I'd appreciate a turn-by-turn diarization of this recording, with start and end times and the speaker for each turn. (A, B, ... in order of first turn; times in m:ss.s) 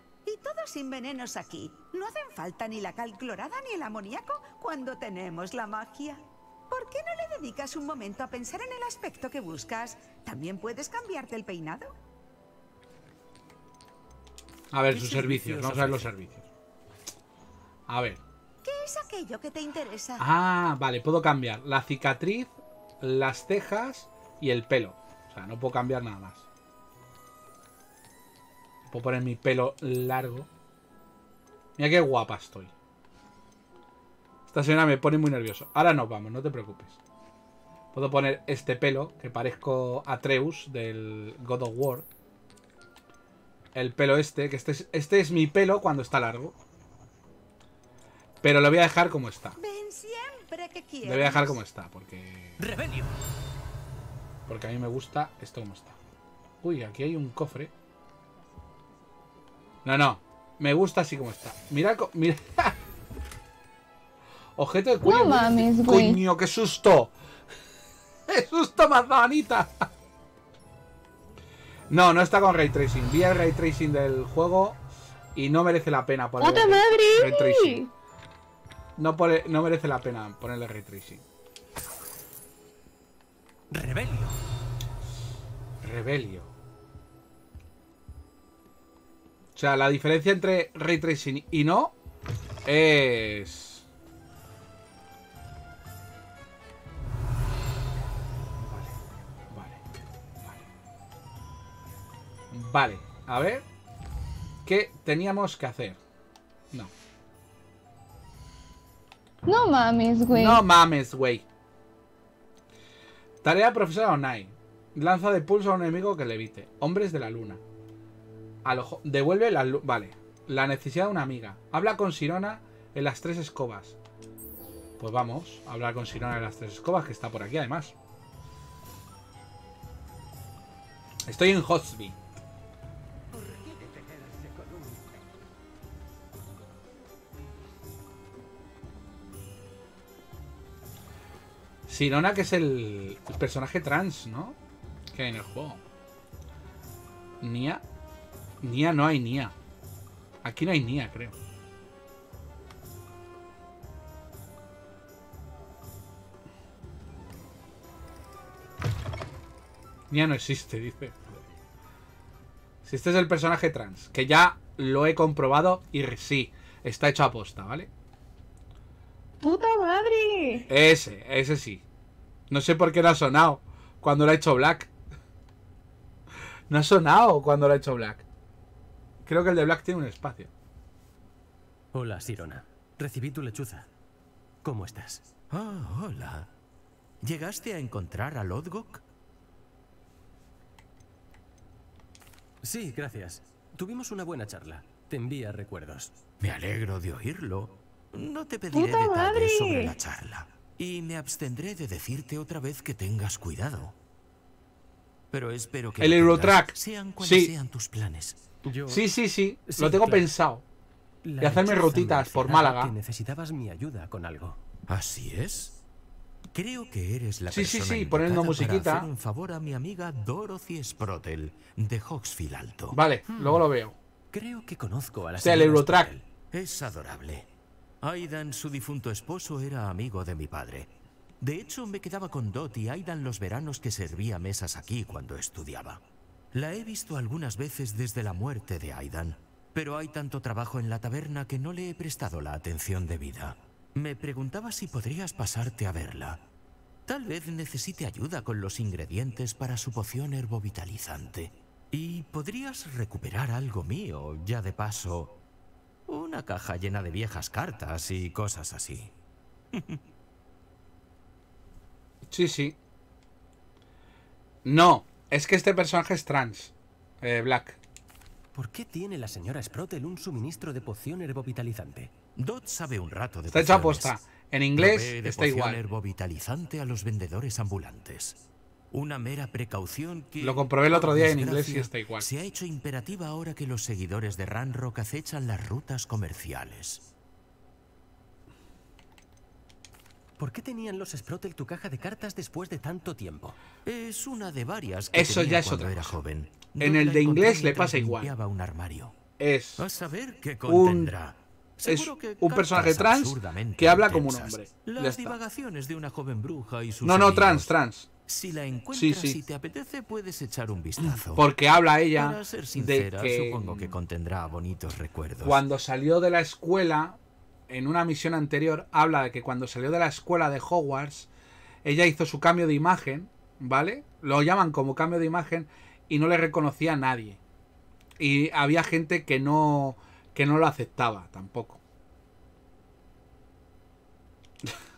0:00.2-0:11.9 A
0:14.7-0:16.4 B
0:14.9-0:16.1 C
0:17.9-0:18.2 B
0:18.6-0:20.2 A
0:20.2-0:26.4 B
0:28.9-0:30.5 B
0:31.8-0:32.7 B
0:34.5-0:37.0 B
0:37.9-0:42.1 B
0:43.7-0:46.5 B
0:48.4-0:49.6 B
0:49.6-0:51.5 A
0:51.0-0:52.6 B
0:52.6-0:53.1 C
0:54.5-0:56.0 B
0:56.6-0:57.7 B
0:59.8-1:02.8 B
1:04.6-1:07.1 B
1:05.0-1:06.2 D
1:08.3-1:09.8 B
1:11.9-1:14.8 B
1:15.3-1:17.8 B
1:16.4-1:17.9 D
1:19.0-1:21.2 B
1:23.7-1:24.4 C
1:25.8-1:26.5 B
1:29.5-1:31.9 B
1:32.6-1:33.8 B
1:38.6-1:39.0 B
1:39.5-1:39.8 B
1:42.5-1:43.6 B
1:44.6-1:46.0 B
1:49.4-1:50.6 D
1:50.3-1:51.4 B
1:53.4-1:57.6 B
1:58.6-2:04.0 B
2:05.0-2:07.9 B
2:11.3-2:12.2 B
2:13.3-2:15.1 C
2:21.9-2:24.6 B
2:25.1-2:25.8 B
2:27.4-2:27.8 B
2:28.6-2:29.5 B
2:30.4-2:31.3 B
2:40.1-2:41.4 B
2:42.8-2:47.9 B
2:49.4-2:50.6 D
2:50.7-2:51.8 B
2:52.5-2:54.9 B
2:56.7-2:58.2 B
2:59.2-3:00.5 B
3:01.9-3:03.9 C
3:04.6-3:05.2 C
3:05.5-3:06.5 E
3:07.2-3:09.0 E
3:12.6-3:16.1 C
3:16.4-3:23.9 E
3:18.7-3:19.9 D
3:25.3-3:28.4 E
3:26.0-3:27.5 B
3:28.6-3:29.1 C
3:28.9-3:30.6 B
3:29.7-3:30.3 C
3:31.2-3:34.6 C
3:31.4-3:32.9 B
3:34.9-3:35.7 E
3:36.5-3:43.0 E
3:37.5-3:39.1 B
3:42.9-3:44.0 B
3:43.4-3:43.6 C
3:44.3-3:46.2 C
3:45.4-3:46.1 B
3:46.5-3:47.5 E
3:48.0-3:56.0 E
3:56.5-4:06.4 E
4:07.1-4:15.4 E
4:16.1-4:19.1 E
4:19.7-4:20.0 E
4:22.3-4:22.8 B
4:24.6-4:27.8 B
4:28.5-4:32.1 C
4:32.4-4:34.2 E
4:33.5-4:35.8 B
4:34.8-4:38.4 E
4:38.9-4:47.0 E
4:40.4-4:42.3 B
4:50.4-4:53.6 C
4:53.8-4:59.1 E
4:55.1-4:56.2 B
4:56.8-4:58.3 B
4:59.4-4:59.8 B
4:59.8-5:07.7 E
5:00.6-5:01.1 B
5:01.8-5:05.4 B
5:07.0-5:08.1 B
5:08.3-5:11.5 E
5:08.9-5:09.4 B
5:11.0-5:13.9 B
5:12.1-5:15.6 E
5:15.4-5:17.2 B
5:17.7-5:21.3 B
5:21.8-5:27.4 B
5:28.2-5:31.8 B